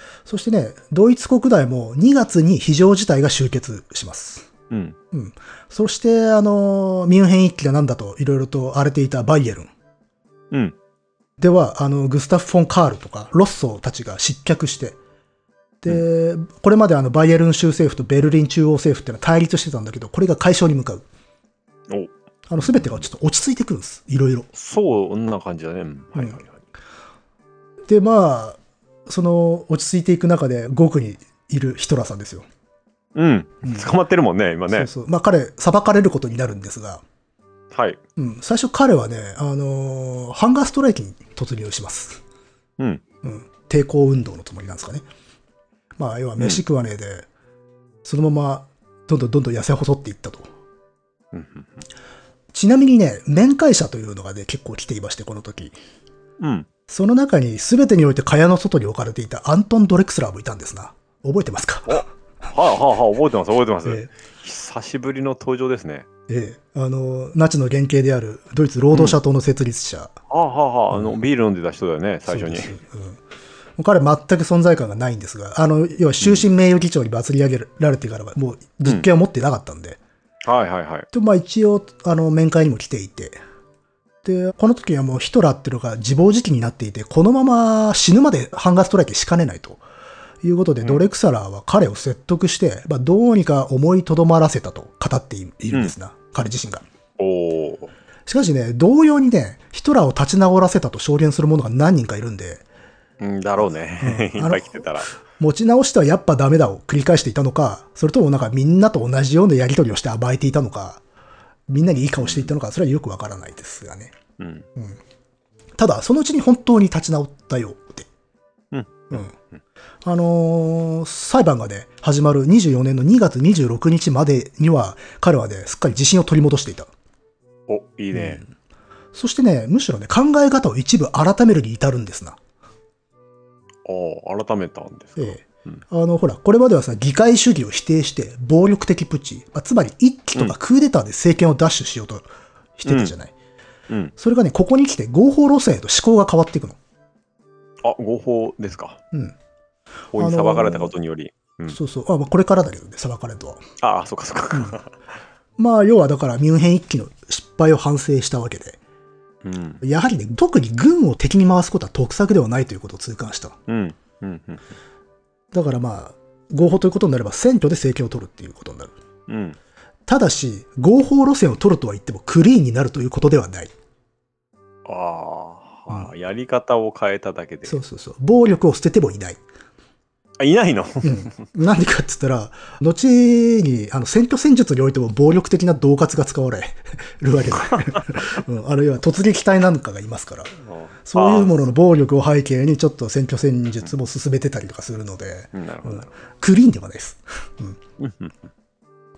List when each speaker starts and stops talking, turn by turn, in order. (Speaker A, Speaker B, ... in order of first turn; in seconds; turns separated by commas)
Speaker A: 0.3-4.5, Speaker B: 4.7-5.0, Speaker A: 5.1-9.7, Speaker A: 11.4-15.0, Speaker A: 15.8-21.1, Speaker B: 21.9-23.1, Speaker A: 22.5-24.5, Speaker B: 24.5-26.7, Speaker A: 27.9-32.5, Speaker B: 33.1-34.9, Speaker A: 34.7-37.0, Speaker B: 37.7-38.0, Speaker A: 38.2-42.2, Speaker A: 43.2-45.1, Speaker A: 46.0-47.3, Speaker B: 46.4-46.6, Speaker A: 48.0-50.5, Speaker B: 51.3-51.9, Speaker A: 52.5-55.8, Speaker B: 56.4-56.7, Speaker A: 56.9-62.1, Speaker B: 61.9-66.1, Speaker A: 66.3-70.1, Speaker B: 68.9-69.2, Speaker B: 70.3-72.8, Speaker A: 72.3-73.2, Speaker A: 73.8-80.0, Speaker B: 80.4-81.1, Speaker A: 81.1-83.4, Speaker A: 84.2-89.8, Speaker A: 90.4-96.8, Speaker B: 97.2-97.9, Speaker A: 98.3-102.6, Speaker B: 103.2-105.1, Speaker A: 104.0-111.0, Speaker A: 111.7-114.1, Speaker B: 112.2-112.5, Speaker B: 114.4-114.7, Speaker A: 115.8-118.1, Speaker B: 118.7-119.6, Speaker A: 120.0-126.9, Speaker B: 127.7-128.4, Speaker A: 128.1-128.5, Speaker A: 129.1-132.4, Speaker B: 133.9-135.8, Speaker A: 135.2-143.3, Speaker B: 142.9-143.1, Speaker A: 144.2-146.8, Speaker B: 147.8-149.0, Speaker B: 150.1-151.8, Speaker A: 150.2-150.9, Speaker A: 151.7-153.7, Speaker B: 153.8-154.9, Speaker A: 155.6-158.8, Speaker B: 159.4-159.8, Speaker A: 159.8-163.6, Speaker B: 163.7-164.7, Speaker A: 165.5-168.9, Speaker B: 169.3-169.6, Speaker A: 170.1-173.7, Speaker B: 174.9-177.8, Speaker A: 177.7-179.4, Speaker B: 180.4-181.5, Speaker A: 181.0-197.8, Speaker B: 187.6-188.1, Speaker B: 190.6-191.6, Speaker B: 195.5-196.2, Speaker B: 198.0-198.4